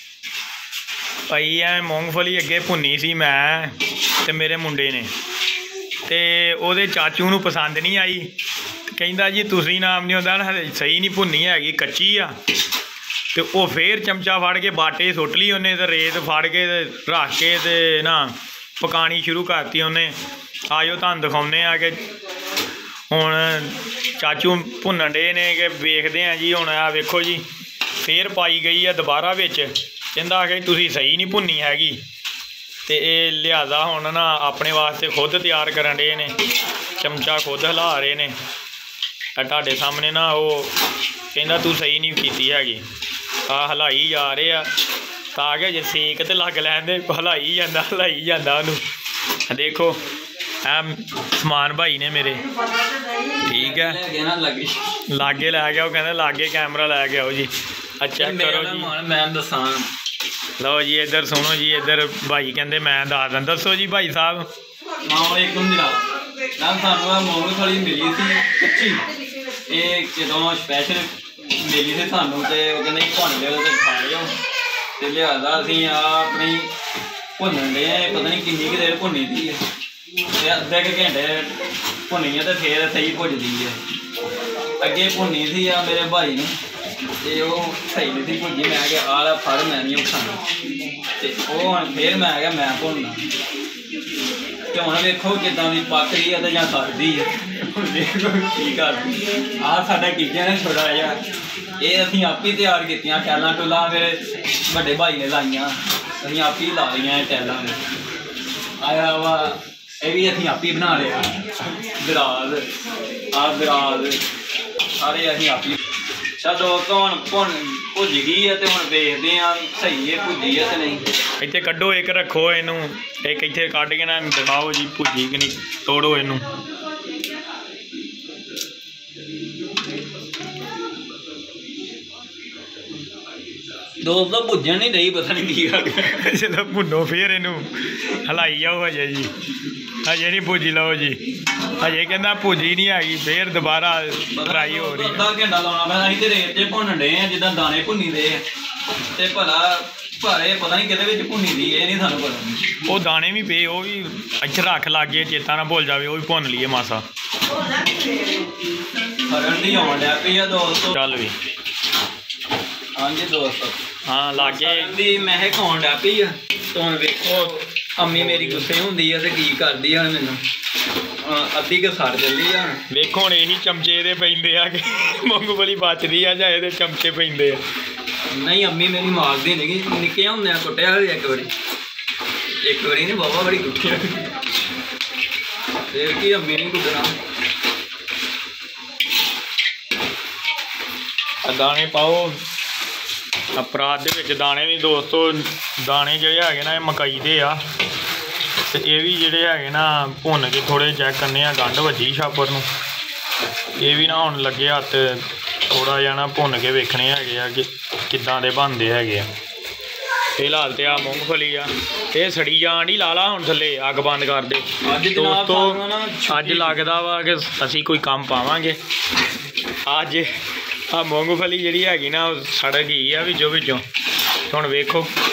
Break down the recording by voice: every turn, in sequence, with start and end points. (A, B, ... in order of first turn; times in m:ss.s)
0:01.3-0:05.1 A
0:06.1-0:08.3 A
0:08.9-0:12.4 A
0:13.3-0:20.1 A
0:20.7-0:22.0 A
0:23.1-0:27.4 A
0:28.0-0:32.0 A
0:32.9-0:36.4 A
0:37.0-0:38.3 A
0:39.4-0:40.7 A
0:41.3-0:42.8 A
0:43.5-0:44.6 A
0:45.3-0:48.8 A
0:49.5-0:50.0 A
0:50.6-0:52.5 A
0:53.2-0:54.8 B
0:53.4-0:54.0 A
0:55.1-0:58.9 A
0:58.2-0:59.9 B
1:00.6-1:04.5 A
1:05.0-1:14.3 B
1:15.0-1:16.7 B
1:17.4-1:19.6 B
1:20.2-1:23.8 B
1:24.8-1:26.5 B
1:27.2-1:30.4 B
1:31.2-1:33.3 B
1:34.7-1:41.2 B
1:41.8-1:47.8 B
1:48.8-1:52.6 B
1:53.3-1:54.2 B
1:55.0-1:55.8 B
1:56.4-2:01.0 B
2:01.4-2:06.5 A
2:14.0-2:16.2 B
2:16.0-2:19.3 A
2:20.0-2:25.3 A
2:24.3-2:28.4 B
2:29.1-2:32.8 B
2:32.8-2:37.0 A
2:39.2-2:41.0 B
2:40.9-2:41.3 A
2:42.9-2:43.8 B
2:44.0-2:44.9 A
2:44.4-2:50.4 B
2:48.0-2:48.7 A
2:51.2-2:52.8 B
2:52.9-2:57.6 A
2:58.3-3:01.5 B
3:02.6-3:04.3 B
3:05.9-3:07.2 B
3:11.4-3:12.4 A
3:13.5-3:17.6 A
3:18.7-3:22.7 A
3:23.8-3:29.3 A
3:30.4-3:38.8 A
3:30.8-3:31.3 B
3:34.8-3:36.9 B
3:39.9-3:40.3 A
3:40.9-3:43.8 A
3:44.5-3:45.1 A